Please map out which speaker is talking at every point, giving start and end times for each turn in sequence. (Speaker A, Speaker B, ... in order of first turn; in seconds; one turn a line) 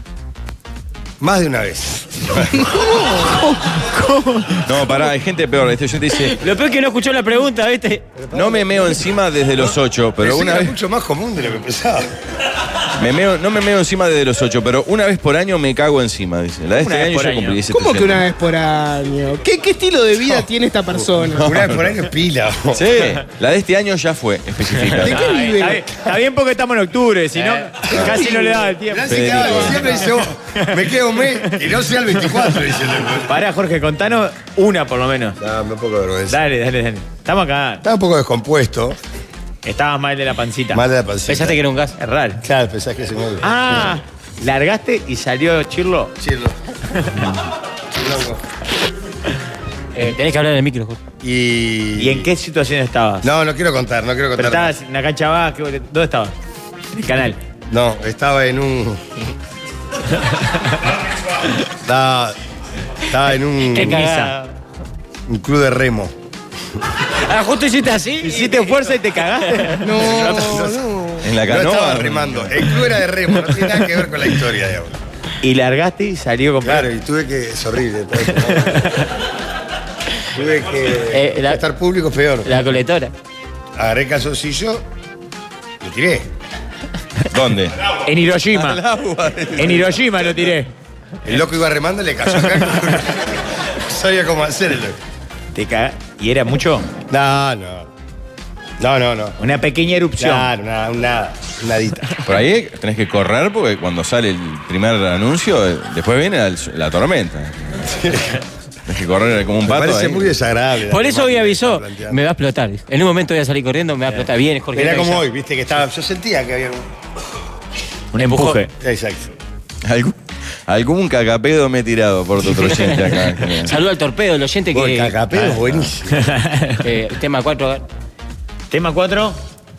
Speaker A: 1.2-2.4
Speaker B: 4.7-6.4
Speaker C: 6.3-8.1
Speaker A: 8.2-9.1
Speaker B: 8.3-10.7
Speaker A: 9.6-12.1
Speaker B: 13.0-18.2
Speaker D: 16.8-17.6
Speaker E: 17.7-21.5
Speaker B: 21.4-21.9
Speaker A: 21.4-23.0
Speaker B: 22.7-25.3
Speaker E: 25.0-25.9
Speaker D: 25.0-30.8
Speaker A: 27.9-33.4
Speaker B: 27.9-28.2
Speaker B: 29.1-29.9
Speaker D: 33.3-35.4
Speaker A: 35.4-36.4
Speaker D: 36.3-37.8
Speaker A: 37.8-39.0
Speaker D: 39.6-40.8
Speaker A: 40.7-41.6
Speaker C: 41.3-41.9
Speaker D: 42.0-42.4
Speaker A: 42.4-44.0
Speaker D: 43.4-46.1
Speaker A: 46.2-46.5
Speaker A: 48.0-48.4
Speaker C: 50.0-51.0
Speaker A: 51.2-52.3
Speaker D: 52.0-53.3
Speaker A: 53.2-54.8
Speaker D: 54.4-56.3
Speaker D: 57.0-57.4
Speaker A: 57.7-59.0
Speaker A: 61.8-62.4
Speaker A: 63.1-64.1
Speaker C: 63.7-64.5
Speaker D: 63.8-64.4
Speaker A: 65.3-66.1
Speaker C: 67.2-68.8
Speaker D: 68.2-70.0
Speaker E: 69.8-71.2
Speaker A: 70.0-70.9
Speaker B: 71.2-72.5
Speaker A: 71.4-74.9
Speaker D: 75.4-76.9
Speaker A: 76.6-78.9
Speaker D: 78.6-79.0
Speaker A: 80.3-82.5
Speaker C: 81.1-81.6
Speaker C: 82.4-83.1
Speaker A: 83.8-84.8
Speaker A: 85.8-86.3
Speaker B: 87.3-87.7
Speaker D: 88.0-88.8
Speaker B: 88.6-89.5
Speaker A: 89.5-89.8
Speaker D: 89.6-90.7
Speaker A: 91.2-95.0
Speaker D: 95.5-96.9
Speaker A: 97.1-97.9
Speaker A: 98.8-99.4
Speaker D: 99.4-100.5
Speaker A: 100.2-102.2
Speaker B: 102.3-107.6
Speaker A: 107.9-108.3
Speaker B: 108.9-110.3
Speaker A: 109.6-112.2
Speaker C: 110.8-115.2
Speaker A: 114.7-116.9
Speaker D: 118.1-118.7
Speaker A: 118.8-119.3
Speaker B: 119.8-120.2
Speaker B: 120.7-123.8
Speaker C: 122.6-125.2
Speaker A: 124.7-126.2
Speaker D: 126.1-126.8
Speaker C: 126.8-127.8
Speaker D: 128.7-129.4